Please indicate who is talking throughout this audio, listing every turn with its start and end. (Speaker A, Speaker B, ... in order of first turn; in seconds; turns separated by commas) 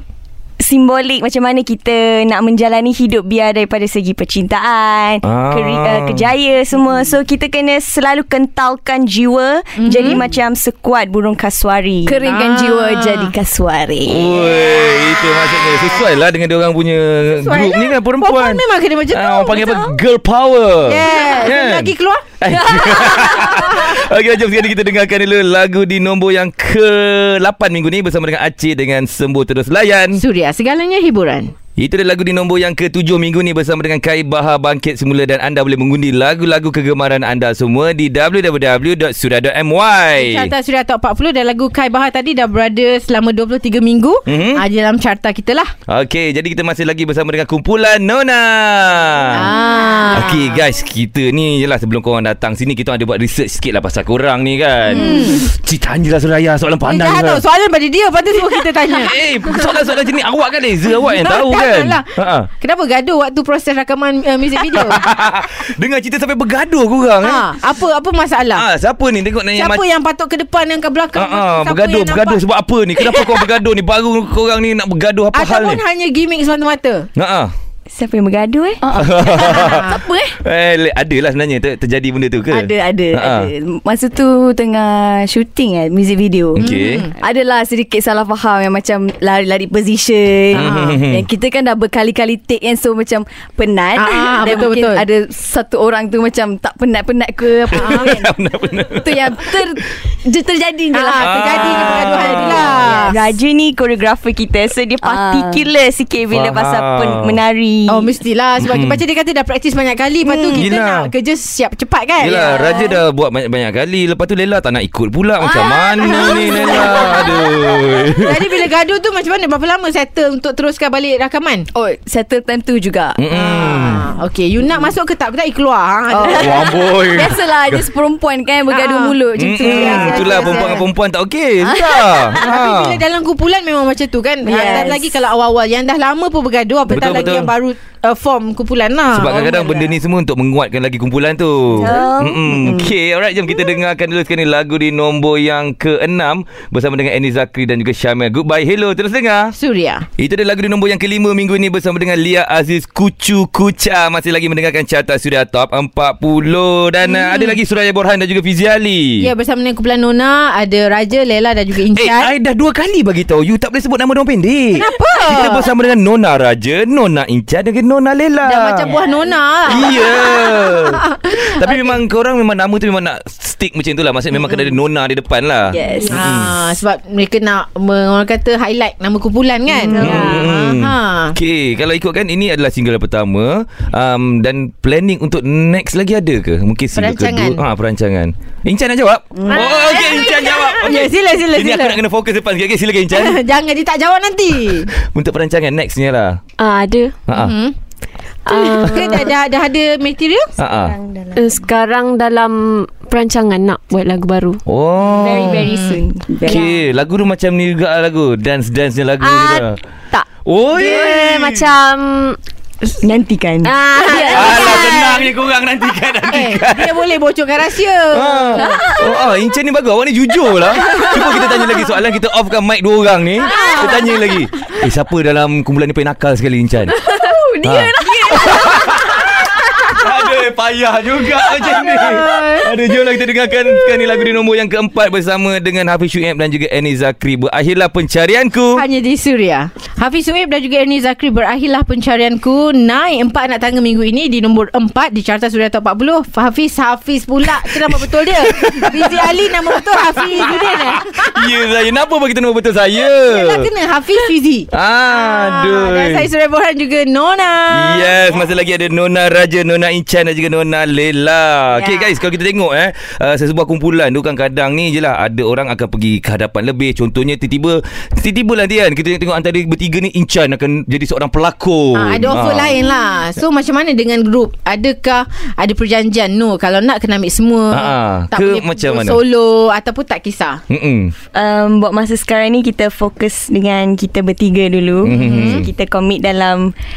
Speaker A: 0.6-12.2, Speaker B: 5.2-6.3, Speaker C: 9.8-10.2, Speaker D: 12.0-14.3, Speaker C: 12.2-13.3, Speaker B: 14.0-30.2, Speaker C: 17.4-19.9, Speaker C: 20.9-22.2, Speaker C: 23.0-24.0, Speaker C: 30.1-31.5, Speaker B: 31.8-40.5, Speaker C: 40.1-45.7, Speaker B: 44.3-44.6, Speaker B: 45.9-49.5, Speaker C: 49.3-50.6, Speaker B: 50.1-57.4, Speaker D: 54.9-55.4, Speaker C: 55.0-55.4, Speaker C: 56.8-59.8, Speaker B: 58.9-62.5, Speaker C: 61.1-65.0, Speaker B: 64.6-67.5, Speaker C: 67.2-68.6, Speaker B: 68.5-69.8, Speaker C: 69.5-72.4, Speaker B: 71.1-75.8, Speaker C: 73.0-73.4, Speaker C: 75.3-77.1, Speaker B: 77.2-77.5, Speaker A: 77.9-78.8, Speaker D: 78.8-80.4, Speaker B: 78.9-83.5, Speaker C: 79.5-80.0, Speaker D: 82.5-86.6, Speaker B: 86.5-87.1, Speaker C: 86.6-87.1, Speaker D: 87.2-98.3, Speaker C: 90.5-91.0, Speaker B: 90.5-91.2, Speaker C: 94.0-95.0, Speaker B: 97.7-99.7, Speaker C: 97.8-98.2, Speaker D: 98.9-103.0, Speaker C: 100.9-103.2, Speaker B: 101.2-103.0, Speaker A: 102.9-108.2, Speaker D: 105.0-105.7, Speaker B: 106.3-107.3, Speaker C: 107.9-112.8, Speaker B: 108.6-109.0, Speaker D: 110.2-110.7, Speaker B: 110.5-111.1, Speaker B: 112.2-118.4, Speaker D: 112.3-113.0, Speaker D: 115.6-117.4, Speaker C: 116.0-117.3, Speaker C: 118.2-121.7, Speaker D: 121.7-123.2, Speaker B: 123.2-124.1, Speaker C: 123.3-126.7, Speaker D: 126.1-130.8, Speaker B: 126.3-127.8, Speaker C: 128.7-130.8, Speaker B: 129.4-133.0, Speaker D: 131.6-132.6, Speaker C: 132.3-139.9, Speaker D: 134.4-135.1, Speaker A: 134.5-134.9, Speaker B: 136.9-137.5, Speaker B: 139.1-149.5, Speaker D: 139.4-139.8, Speaker A: 141.7-142.4, Speaker D: 141.8-142.9, Speaker C: 149.5-150.0, Speaker B: 150.2-159.3, Speaker C: 157.0-157.6, Speaker C: 159.2-162.3, Speaker B: 161.9-168.9, Speaker C: 164.8-165.7, Speaker C: 168.4-172.0, Speaker D: 168.9-169.3, Speaker B: 169.7-176.6, Speaker D: 175.7-176.2, Speaker E: 176.0-176.2, Speaker C: 176.1-181.3, Speaker E: 179.9-180.5, Speaker B: 180.0-193.4, Speaker C: 186.9-187.6, Speaker D: 189.4-190.1, Speaker C: 189.5-192.0, Speaker C: 193.1-194.9, Speaker B: 194.9-196.4, Speaker E: 196.6-197.2, Speaker B: 197.3-197.5, Speaker C: 197.3-197.7, Speaker E: 198.4-199.3, Speaker C: 198.5-200.5, Speaker B: 200.6-200.9, Speaker A: 200.8-201.6, Speaker E: 201.3-204.6, Speaker B: 204.7-205.6, Speaker A: 205.2-206.6, Speaker C: 205.6-206.0, Speaker D: 206.3-206.6, Speaker B: 206.5-209.8, Speaker E: 209.2-210.2, Speaker B: 210.4-211.7, Speaker E: 210.8-212.4, Speaker A: 213.0-213.7, Speaker E: 213.6-215.2, Speaker C: 214.0-215.0, Speaker B: 214.3-216.9, Speaker C: 216.3-218.8, Speaker B: 218.1-227.0, Speaker C: 221.0-221.4, Speaker C: 223.5-224.0, Speaker D: 223.5-224.2, Speaker D: 227.0-229.2, Speaker B: 227.6-238.8, Speaker D: 229.8-230.1, Speaker C: 231.6-232.7, Speaker C: 238.8-251.5, Speaker B: 247.5-253.7, Speaker C: 253.2-258.1, Speaker B: 254.7-256.3, Speaker B: 257.7-272.8, Speaker C: 271.9-280.6, Speaker B: 277.7-279.2, Speaker B: 280.7-281.1, Speaker A: 281.3-286.7, Speaker B: 285.0-285.7, Speaker C: 285.1-285.7